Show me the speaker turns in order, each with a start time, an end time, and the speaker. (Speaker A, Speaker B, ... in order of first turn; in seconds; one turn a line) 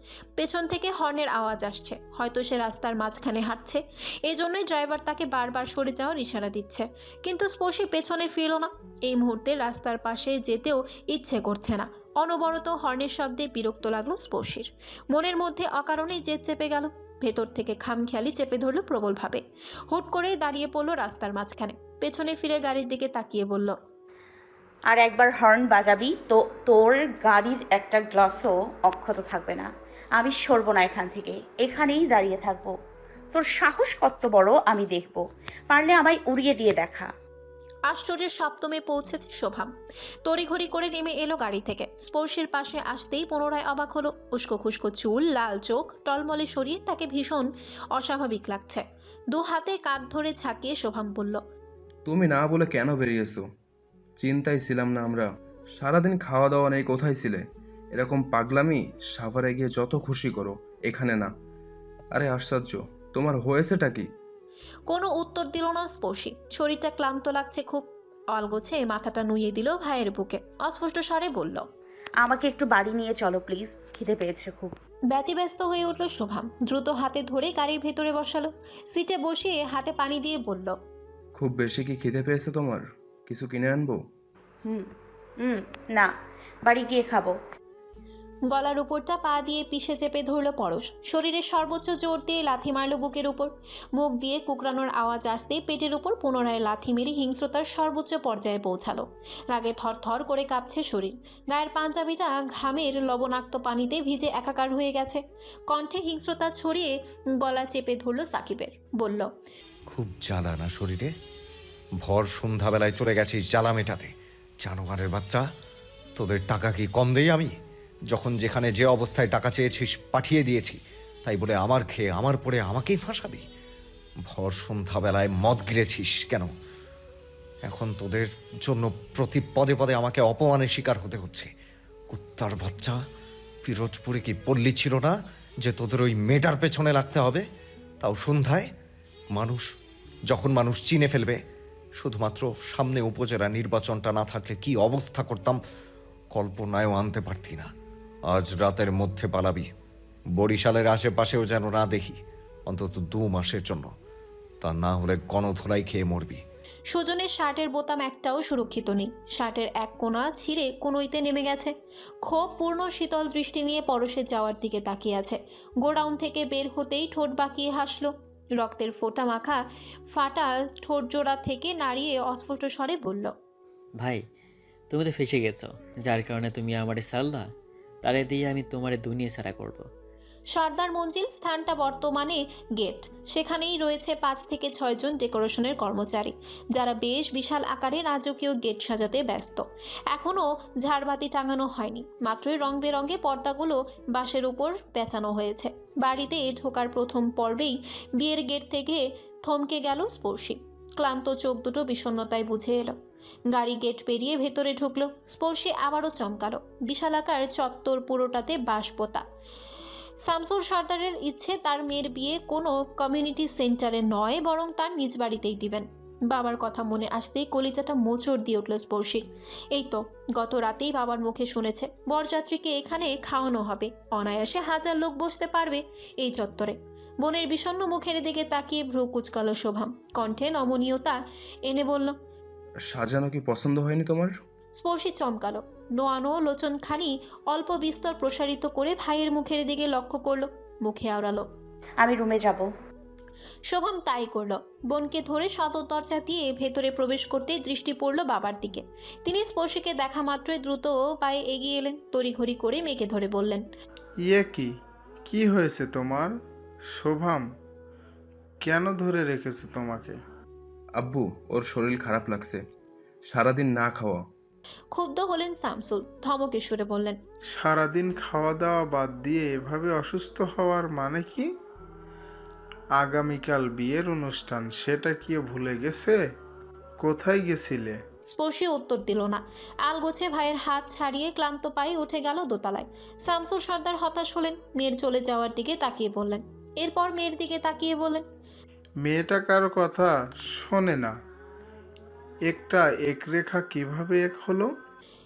Speaker A: 0.4-23.8
Speaker B: 24.9-32.7
Speaker B: 33.3-37.1
Speaker A: 37.9-39.7
Speaker A: 40.2-51.4
Speaker C: 52.1-53.4
Speaker C: 54.2-57.4
Speaker C: 58.0-61.3
Speaker C: 62.1-64.1
Speaker A: 64.9-71.7
Speaker B: 72.2-74.7
Speaker A: 75.1-80.8
Speaker C: 81.4-84.0
Speaker B: 85.4-86.1
Speaker B: 86.7-87.3
Speaker A: 88.5-109.3
Speaker D: 109.9-111.1
Speaker D: 112.0-114.1
Speaker D: 114.6-115.4
Speaker D: 116.2-117.5
Speaker D: 118.1-123.4
Speaker D: 124.3-126.5
Speaker D: 127.7-131.5
Speaker D: 132.1-133.0
Speaker D: 133.7-137.4
Speaker D: 138.0-138.7
Speaker D: 139.3-139.7
Speaker D: 140.3-141.4
Speaker D: 142.0-145.6
Speaker D: 146.3-147.7
Speaker D: 148.3-149.7
Speaker D: 150.4-152.2
Speaker D: 152.7-153.9
Speaker D: 154.6-156.4
Speaker A: 156.9-173.3
Speaker E: 174.0-174.3
Speaker E: 174.9-179.9
Speaker A: 180.5-203.0
Speaker A: 203.5-209.2
Speaker A: 210.2-232.2
Speaker C: 232.9-234.3
Speaker A: 234.7-241.5
Speaker B: 242.0-242.7
Speaker A: 243.7-253.7
Speaker F: 254.2-254.7
Speaker F: 255.3-256.3
Speaker F: 257.0-257.4
Speaker F: 258.6-260.1
Speaker C: 261.0-262.6
Speaker C: 263.3-264.2
Speaker A: 264.9-267.2
Speaker F: 267.6-271.4
Speaker F: 273.0-276.1
Speaker F: 277.0-277.9
Speaker A: 278.3-288.2
Speaker F: 289.0-290.1
Speaker F: 292.5-294.6